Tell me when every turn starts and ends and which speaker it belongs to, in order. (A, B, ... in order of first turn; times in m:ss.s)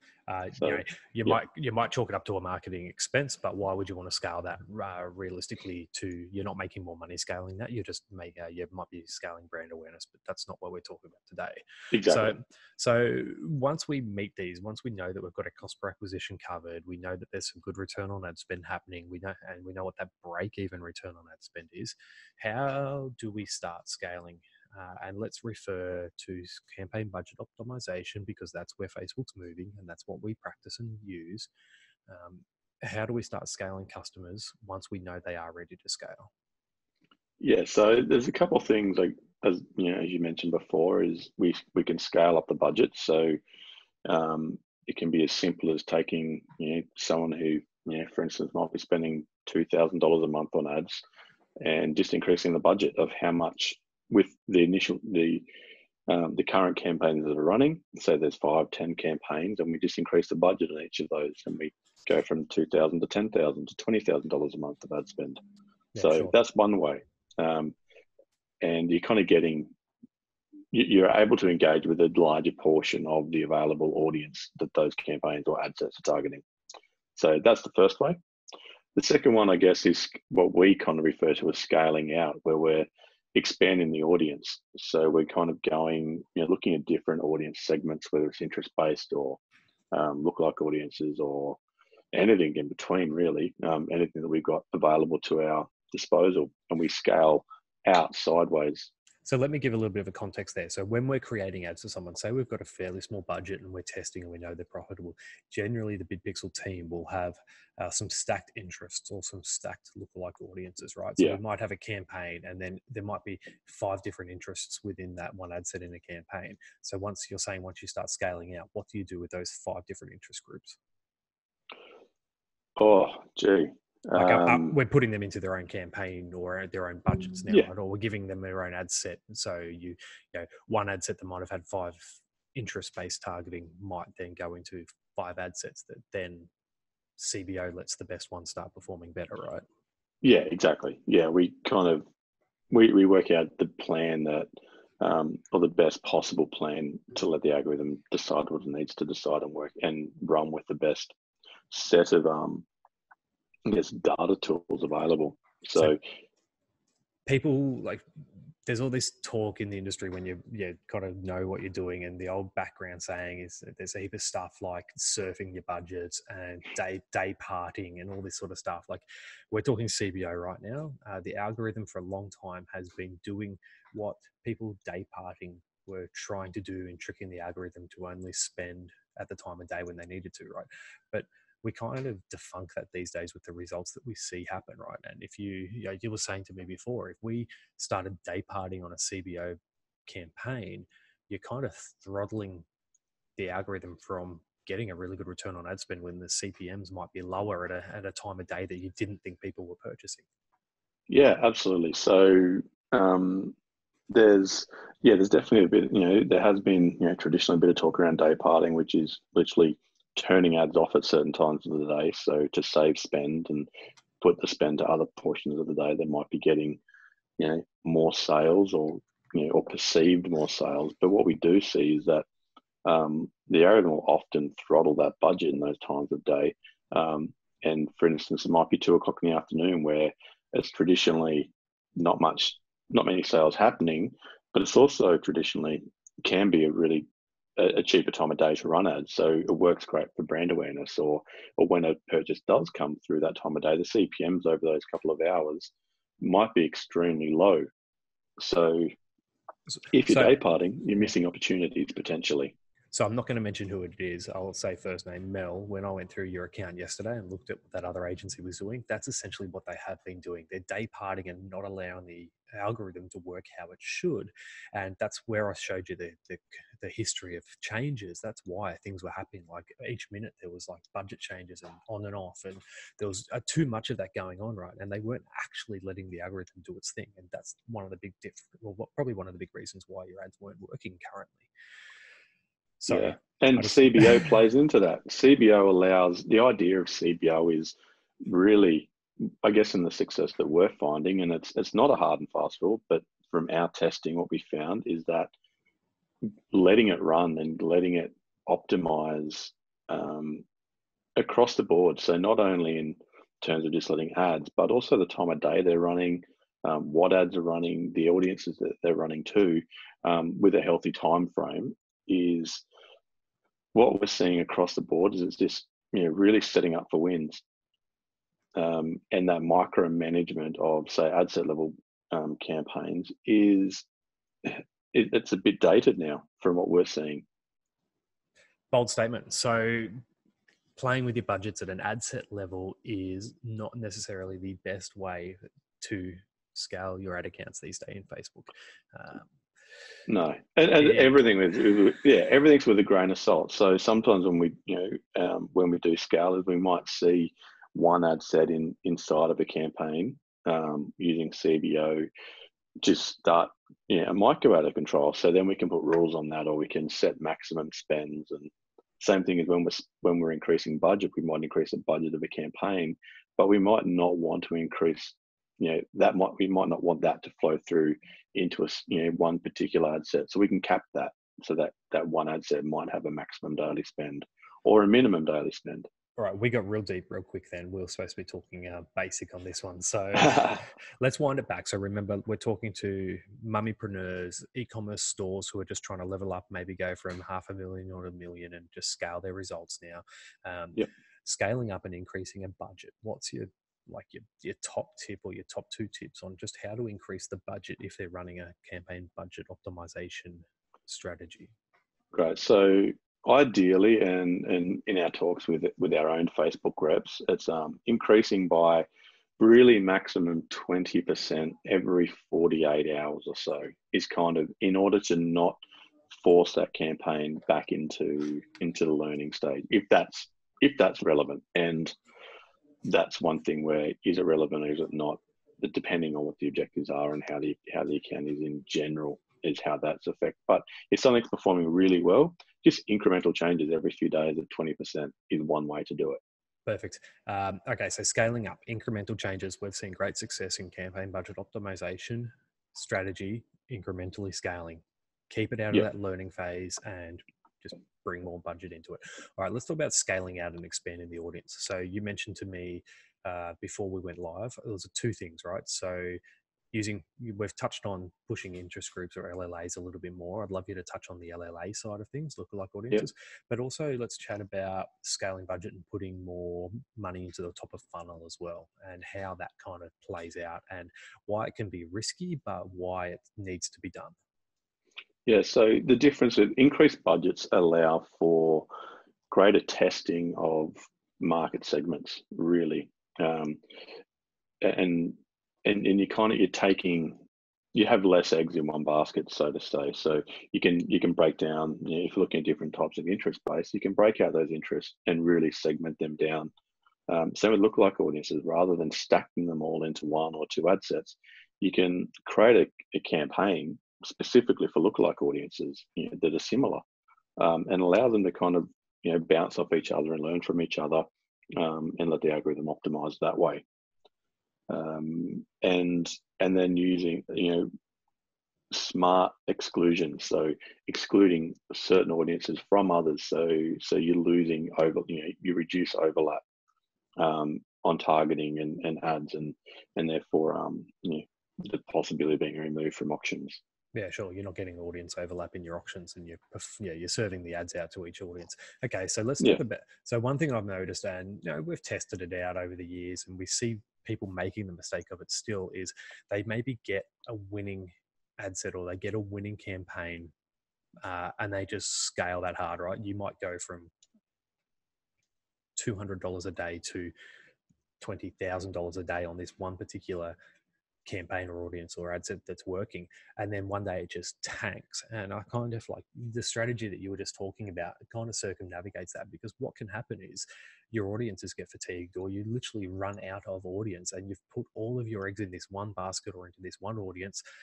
0:00.3-0:31.5 A
0:00.6-0:01.3 B
0:11.9-0:12.4 B
0:32.1-0:36.3 A
0:37.4-0:43.4 B
0:44.0-0:51.0 B
0:51.6-0:55.4 B
0:56.1-1:05.4 B
1:06.0-1:06.4 A
1:06.0-1:07.8 B
1:08.6-1:09.7 B
1:10.7-1:16.4 B
1:17.2-1:18.2 B
1:19.0-1:29.4 B
1:29.9-1:31.6 B
1:32.1-1:38.9 B
1:39.3-2:00.8 A
2:02.8-2:04.7 B
2:04.2-2:16.5 A
2:17.2-2:19.6 A
2:20.2-2:22.1 B
2:22.7-2:24.5 B
2:25.0-2:31.1 B
2:31.7-2:32.6 B
2:33.7-2:36.0 B
2:37.3-2:38.0 A
2:38.7-3:12.6 A
3:13.4-3:20.3 A
3:21.1-3:23.5 B
3:24.1-3:33.7 B
3:34.2-3:36.8 B
3:37.4-3:42.2 B
3:42.8-4:07.7 B
4:08.4-4:08.9 B
4:09.9-4:12.6 B
4:10.0-4:10.3 A
4:12.9-4:41.5 A
4:42.8-4:44.3 A
4:42.9-4:55.3 B
4:56.5-5:00.4 B
5:01.2-5:12.6 B
5:13.8-5:17.4 B
5:18.6-5:23.8 B
5:24.4-5:27.2 B
5:28.7-5:30.0 A
5:30.8-5:39.3 A
5:40.1-5:52.1 B
5:40.8-5:41.1 A
5:52.8-6:15.9 B
6:16.2-6:41.5 A
6:42.1-6:48.9 B
6:49.4-6:55.6 B
6:56.1-7:01.9 B
7:02.8-7:16.2 B
7:16.7-7:36.2 A
7:36.7-7:54.2 A
7:55.3-7:58.7 B
7:59.3-8:03.6 B
8:04.6-8:07.2 B
8:07.7-8:16.5 B
8:17.1-8:26.8 B
8:27.4-8:33.6 B
8:34.7-8:37.7 B
8:38.7-8:46.4 B
8:47.2-8:53.6 B
8:53.9-9:10.3 A
9:11.0-9:13.9 A
9:15.8-9:17.1 A
9:18.0-9:20.4 A
9:21.1-9:37.4 A